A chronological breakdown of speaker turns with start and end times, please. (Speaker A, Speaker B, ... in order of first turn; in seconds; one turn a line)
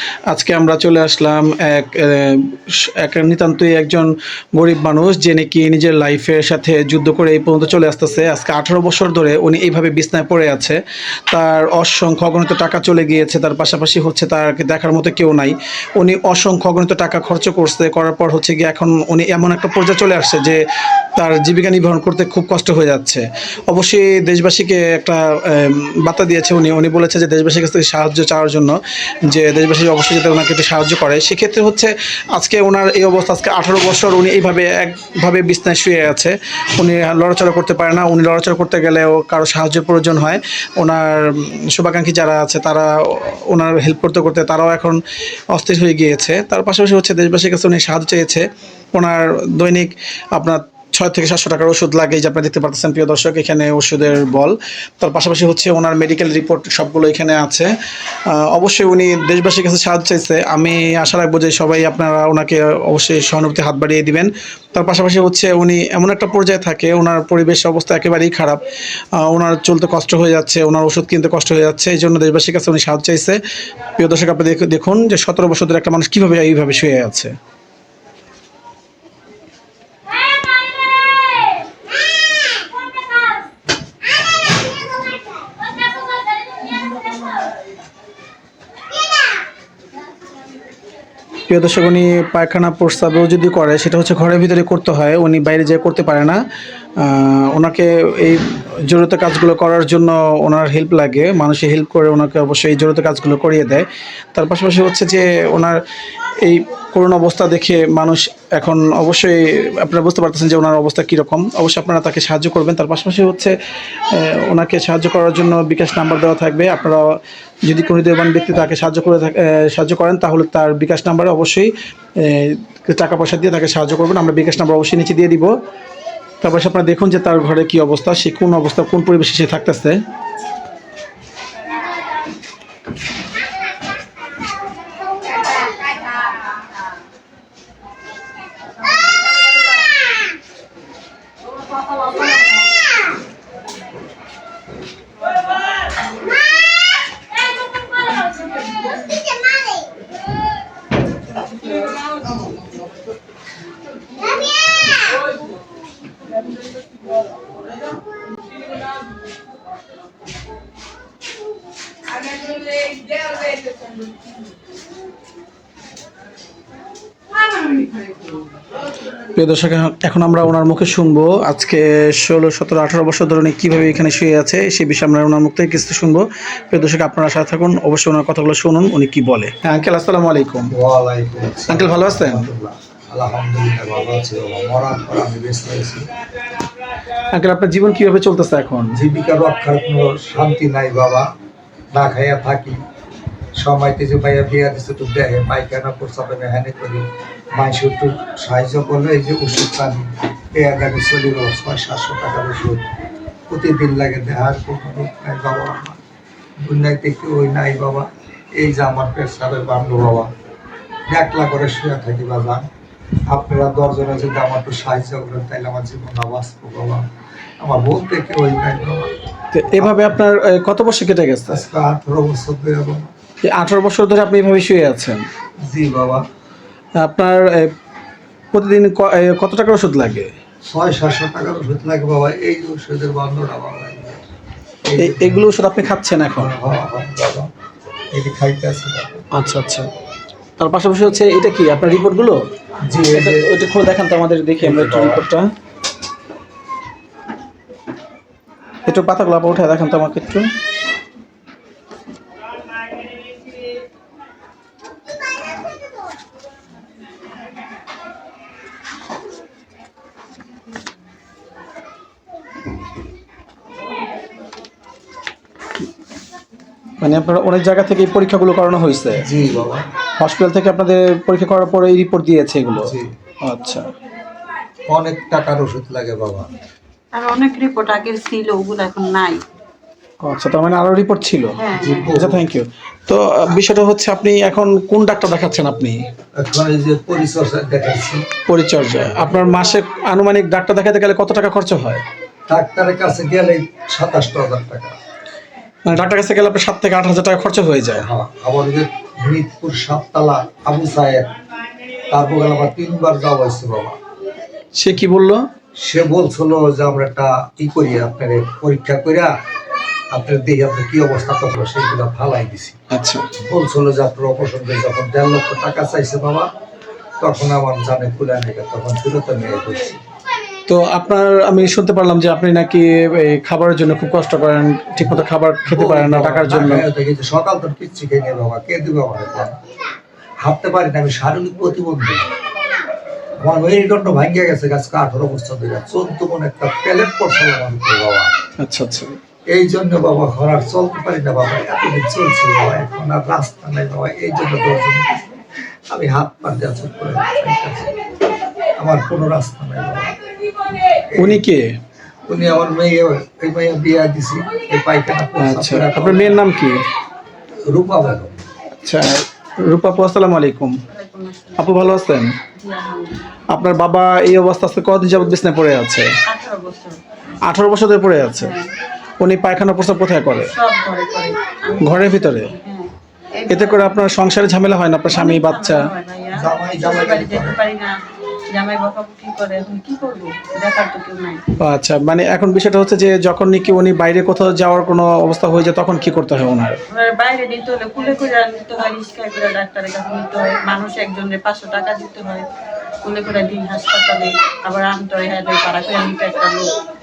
Speaker A: 0.3-20.6
Speaker A: 21.2-28.7
Speaker A: 29.3-45.0
Speaker A: 45.5-57.7
Speaker A: 58.3-68.6
Speaker A: 69.2-73.4
Speaker A: 74.0-77.3
Speaker A: 91.5-96.4
Speaker A: 97.0-105.8
Speaker A: 106.4-113.5
Speaker A: 114.1-117.0
Speaker A: 117.6-125.5
Speaker A: 126.4-130.0
Speaker A: 169.3-180.7
Speaker B: 180.7-186.0
Speaker A: 181.7-182.5
Speaker A: 187.3-189.0
Speaker B: 188.9-191.3
Speaker B: 191.9-192.8
Speaker B: 193.6-197.0
Speaker B: 197.6-202.8
Speaker B: 203.5-206.0
Speaker B: 206.6-210.3
Speaker B: 211.1-212.7
Speaker B: 213.3-217.0
Speaker B: 217.6-219.1
Speaker A: 219.5-221.6
Speaker B: 221.5-223.1
Speaker A: 223.4-225.2
Speaker B: 225.7-226.2
Speaker A: 227.0-227.7
Speaker A: 228.5-230.3
Speaker B: 230.6-234.2
Speaker B: 234.8-235.4
Speaker A: 235.0-236.5
Speaker B: 236.3-237.5
Speaker B: 238.1-239.2
Speaker A: 239.3-239.9
Speaker A: 240.6-242.4
Speaker B: 242.8-243.5
Speaker A: 243.1-245.5
Speaker B: 244.6-245.2
Speaker A: 248.8-250.5
Speaker A: 267.0-269.2
Speaker B: 269.2-269.9
Speaker A: 270.2-272.9
Speaker B: 272.7-273.1
Speaker A: 273.4-273.9
Speaker B: 274.9-276.5
Speaker C: 277.1-279.4
Speaker A: 280.2-281.5
Speaker C: 281.6-282.1
Speaker B: 281.7-282.4
Speaker A: 282.1-286.0
Speaker B: 286.4-288.2
Speaker A: 288.5-292.0
Speaker B: 292.5-294.9
Speaker A: 295.8-298.1
Speaker B: 297.9-301.3
Speaker B: 302.1-304.0
Speaker A: 304.8-305.4
Speaker B: 305.8-309.3
Speaker B: 310.1-312.8
Speaker A: 312.9-313.3
Speaker B: 313.4-316.5
Speaker B: 317.2-320.0
Speaker A: 320.7-326.9
Speaker B: 325.0-329.6
Speaker B: 330.4-332.3
Speaker B: 333.4-338.3
Speaker A: 338.6-339.1
Speaker B: 339.5-345.1
Speaker B: 345.9-347.9
Speaker B: 348.8-350.1
Speaker B: 351.1-351.4
Speaker A: 351.2-351.8
Speaker B: 352.3-356.4
Speaker A: 355.4-356.8
Speaker B: 357.7-358.4
Speaker A: 358.8-360.8
Speaker C: 360.9-361.7
Speaker A: 361.6-362.4
Speaker C: 362.6-363.2
Speaker A: 363.5-366.1
Speaker C: 366.3-367.0
Speaker A: 367.4-368.5
Speaker C: 368.3-368.7
Speaker A: 369.2-370.5
Speaker C: 370.4-374.0
Speaker A: 371.8-372.5
Speaker A: 373.5-375.9
Speaker C: 375.1-377.9
Speaker B: 376.4-377.6
Speaker C: 378.5-381.4
Speaker A: 381.6-386.8
Speaker C: 386.9-392.4
Speaker C: 393.0-396.7